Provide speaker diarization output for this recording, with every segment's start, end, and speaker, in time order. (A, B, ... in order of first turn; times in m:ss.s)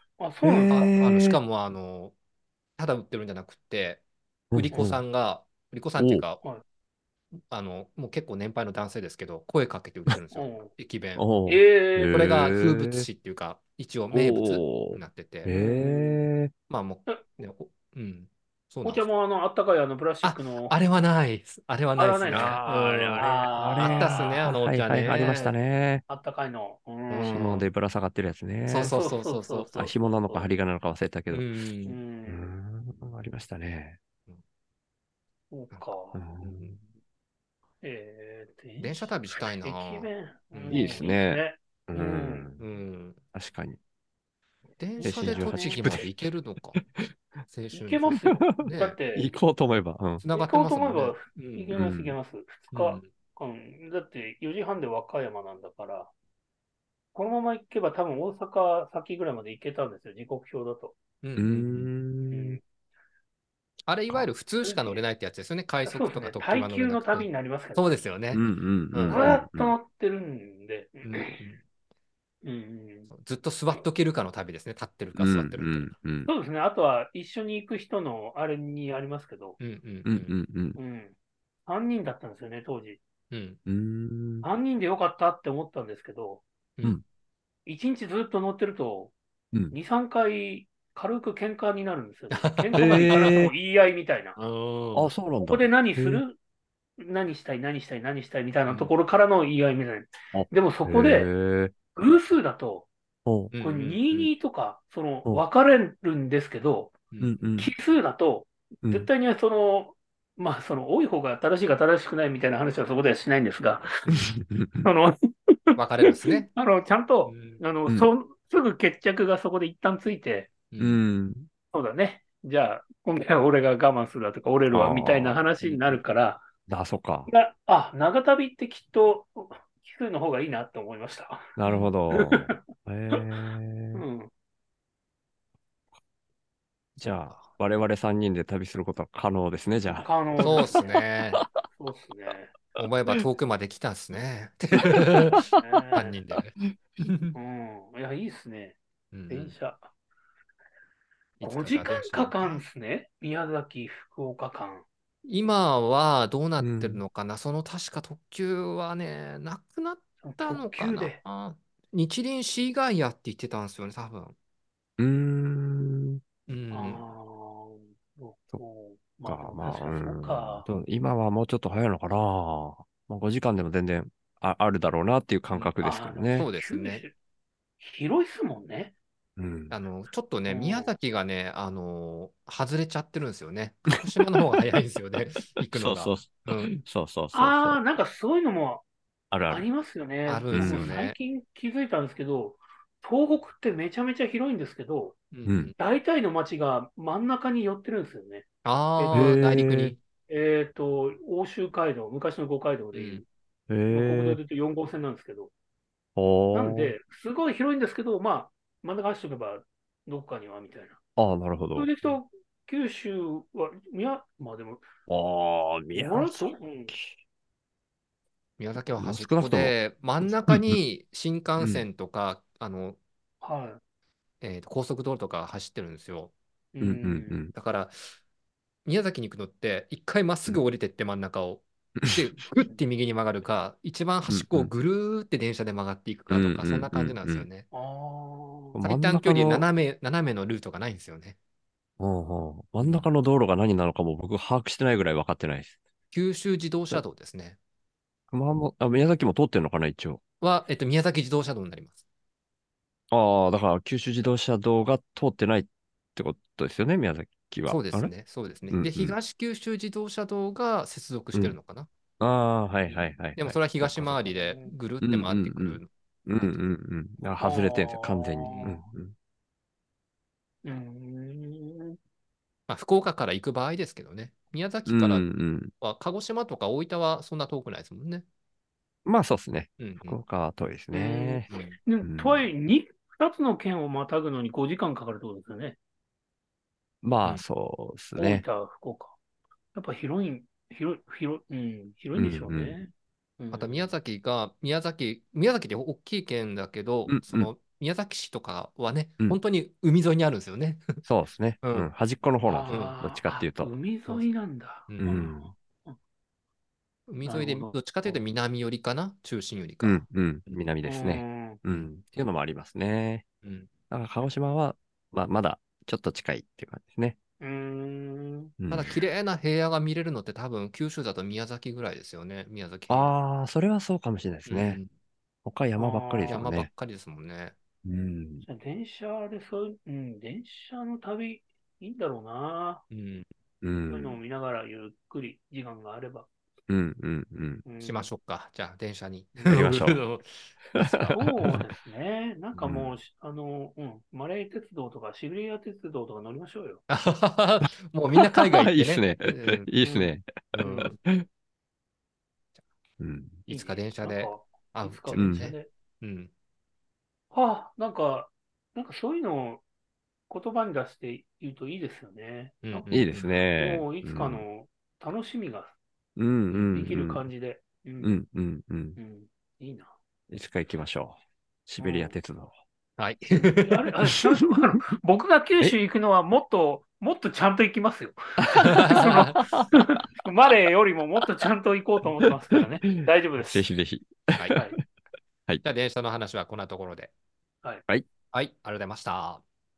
0:00.2-0:00.9 A
0:00.4-0:01.4 B
0:00.6-0:02.2 C
0:02.8-0:04.0 C
0:04.5-0:05.0 B
0:04.6-0:06.4 C
0:06.0-0:06.2 B
0:07.5-0:11.2 C
0:10.3-0:10.7 A
0:11.2-0:13.1 B
0:11.5-0:12.3 A
0:12.1-0:15.5 C
0:14.1-0:16.5 B
0:15.5-0:16.2 A
0:16.7-0:19.1 C
0:18.8-0:20.8 A
0:20.2-0:25.4 C
0:22.0-0:24.2 A
0:22.3-0:22.6 B
0:23.2-0:26.0 B
0:25.1-0:25.5 A
0:26.1-0:27.6 A
0:27.1-0:27.6 C
0:27.3-0:28.9 B
0:28.7-0:29.8 C
0:28.8-0:30.5 A
0:29.8-0:31.5 B
0:31.3-0:32.0 C
0:31.9-0:32.5 A
0:32.3-0:34.0 B
0:35.5-0:36.2 A
0:36.1-0:36.6 B
0:36.4-0:36.8 C
0:37.8-0:42.5 A
0:38.8-0:41.1 C
0:40.7-0:42.6 B
0:42.6-0:43.2 C
0:43.3-0:43.8 B
0:44.8-0:46.8 C
0:45.0-0:46.0 A
0:45.0-0:46.1 B
0:46.8-0:47.1 B
0:47.5-0:49.0 C
0:47.7-0:49.3 A
0:48.2-0:50.2 B
0:50.2-0:51.8 C
0:50.3-0:56.1 A
0:51.7-0:52.1 B
0:52.7-0:53.1 C
0:57.1-1:01.0 A
1:01.2-1:01.9 C
1:01.4-1:02.6 B
1:02.3-1:02.6 A
1:03.9-1:09.4 C
1:04.6-1:05.0 A
1:05.8-1:07.9 A
1:08.3-1:09.7 B
1:09.1-1:11.5 A
1:11.0-1:11.6 C
1:12.4-1:13.1 A
1:13.1-1:15.9 C
1:15.2-1:16.3 B
1:16.3-1:19.6 A
1:19.6-1:20.4 C
1:20.0-1:20.8 B
1:20.8-1:21.2 A
1:21.7-1:23.0 A
1:23.3-1:23.6 C
1:23.7-1:24.5 B
1:24.4-1:26.4 A
1:27.7-1:29.1 A
1:29.7-1:34.4 A
1:32.3-1:33.4 C
1:32.8-1:33.5 B
1:34.4-1:35.1 C
1:34.9-1:36.2 B
1:35.4-1:36.4 A
1:37.0-1:41.3 A
1:40.3-1:41.8 B
1:42.0-1:42.9 A
1:43.3-1:43.5 B
1:43.5-1:44.3 C
1:43.6-1:47.0 A
1:47.1-1:47.4 C
1:47.2-1:47.7 B
1:47.6-1:53.9 A
1:54.1-1:54.9 B
1:54.8-2:00.5 A
1:55.8-1:56.5 C
1:57.3-1:57.6 C
2:00.7-2:01.0 C
2:00.8-2:01.5 B
2:01.7-2:06.4 A
2:04.7-2:05.7 B
2:06.7-2:07.3 B
2:07.3-2:11.5 A
2:11.6-2:14.0 B
2:11.6-2:11.9 C
2:12.1-2:12.6 A
2:13.9-2:14.3 A
2:17.0-2:17.4 C
2:17.0-2:20.8 B
2:20.0-2:20.9 A
2:20.4-2:21.4 C
2:21.7-2:22.5 A
2:22.8-2:27.4 C
2:25.6-2:26.2 A
2:27.4-2:28.8 A
2:29.1-2:29.6 C
2:29.3-2:29.9 A
2:31.4-2:32.6 C
2:31.4-2:34.8 A
2:35.2-2:44.4 C
2:36.6-2:37.0 B
2:40.2-2:41.2 A
2:45.0-2:46.2 B
2:46.5-2:47.0 C
2:46.7-2:50.7 A
2:49.2-2:56.5 B
2:55.5-2:57.1 A
2:56.4-2:57.0 C
2:57.8-2:58.9 A
2:59.4-2:59.8 B
2:59.7-3:06.7 C
3:00.5-3:00.9 A
3:05.6-3:07.8 B
3:07.3-3:08.8 A
3:09.3-3:09.7 B
3:09.5-3:15.2 A
3:10.3-3:11.2 C
3:10.5-3:10.9 B
3:15.3-3:15.8 C
3:15.5-3:15.7 B
3:15.8-3:18.4 A
3:18.6-3:20.0 C
3:19.0-3:19.3 A
3:19.1-3:20.0 B
3:20.3-3:23.3 A
3:22.9-3:23.2 C
3:23.7-3:24.4 B
3:23.9-3:25.5 A
3:26.2-3:26.9 B
3:26.5-3:31.0 A
3:31.2-3:31.9 B
3:31.8-3:34.9 A
3:35.1-3:37.1 B
3:36.0-3:36.9 A
3:38.6-3:43.0 C
3:39.0-3:39.8 B
3:40.5-3:40.8 B
3:43.4-3:43.8 A
3:44.4-3:46.3 C
3:46.7-3:47.4 A
3:46.8-3:47.5 B
3:47.5-3:48.0 C
3:48.8-3:57.7 C
3:52.0-3:52.2 B
3:54.3-3:54.7 B
3:56.3-3:57.5 B
3:57.7-3:58.8 A
3:58.8-3:59.7 B
3:58.8-4:01.4 C
4:02.0-4:05.8 B
4:02.8-4:03.1 C
4:06.1-4:07.6 C
4:08.3-4:10.2 B
4:10.4-4:12.0 C
4:13.1-4:18.1 B
4:17.7-4:21.9 C
4:18.7-4:19.2 B
4:22.2-4:24.2 B
4:23.4-4:26.6 C
4:24.2-4:24.7 A
4:25.0-4:29.1 B
4:27.3-4:28.8 A
4:30.6-4:32.0 A
4:32.7-4:35.3 C
4:34.9-4:35.7 B
4:35.8-4:38.2 C
4:39.1-4:41.5 B
4:39.8-4:40.2 C
4:40.9-4:45.8 A
4:41.5-4:41.8 C
4:42.0-4:42.5 B
4:47.0-4:48.4 B
4:48.2-4:49.2 A
4:49.7-4:53.9 A
4:52.1-4:52.8 B
4:53.5-5:01.0 C
4:57.1-4:57.5 B
5:01.1-5:03.7 B
5:01.6-5:01.9 C
5:02.4-5:06.0 A
5:02.7-5:03.0 C
5:04.9-5:05.3 C
5:05.0-5:05.5 B
5:07.1-5:10.0 C
5:07.2-5:08.1 A
5:09.8-5:13.2 B
5:10.8-5:11.6 A
5:13.4-5:13.7 C
5:13.9-5:17.2 B
5:17.4-5:18.5 A
5:18.6-5:19.0 B
5:18.7-5:23.2 C
5:22.9-5:24.8 B
5:24.5-5:24.9 C
5:25.4-5:26.7 B
5:25.8-5:26.5 A
5:26.3-5:27.6 C
5:27.8-5:28.5 B
5:28.5-5:32.8 A
5:32.9-5:33.3 C
5:33.6-5:34.2 B
5:33.9-5:36.3 A
5:36.7-5:37.6 B
5:37.6-5:38.1 A
5:37.8-5:41.2 C
5:39.4-5:39.6 A
5:39.5-5:40.0 B
5:40.8-5:41.6 B
5:41.1-5:46.8 A
5:42.6-5:42.9 C
5:46.9-5:49.7 C
5:48.2-5:51.2 B
5:49.8-5:50.9 A
5:50.5-5:51.0 C
5:53.0-5:53.4 B
5:53.5-5:56.3 C
5:53.5-5:55.7 A
5:55.1-5:55.5 B
5:57.3-5:59.6 A
6:00.3-6:03.0 A
6:02.6-6:03.3 C
6:02.9-6:04.4 B
6:03.6-6:05.8 A
6:06.2-6:07.3 B
6:06.5-6:06.9 C
6:06.7-6:08.1 A
6:08.0-6:09.0 B
6:09.0-6:09.9 A
6:10.3-6:12.5 B
6:11.8-6:12.1 A
6:13.0-6:13.9 C
6:13.6-6:23.7 A
6:14.1-6:14.5 B
6:18.5-6:19.7 B
6:18.8-6:19.4 C
6:22.8-6:24.7 B
6:25.6-6:27.1 C
6:28.3-6:29.4 C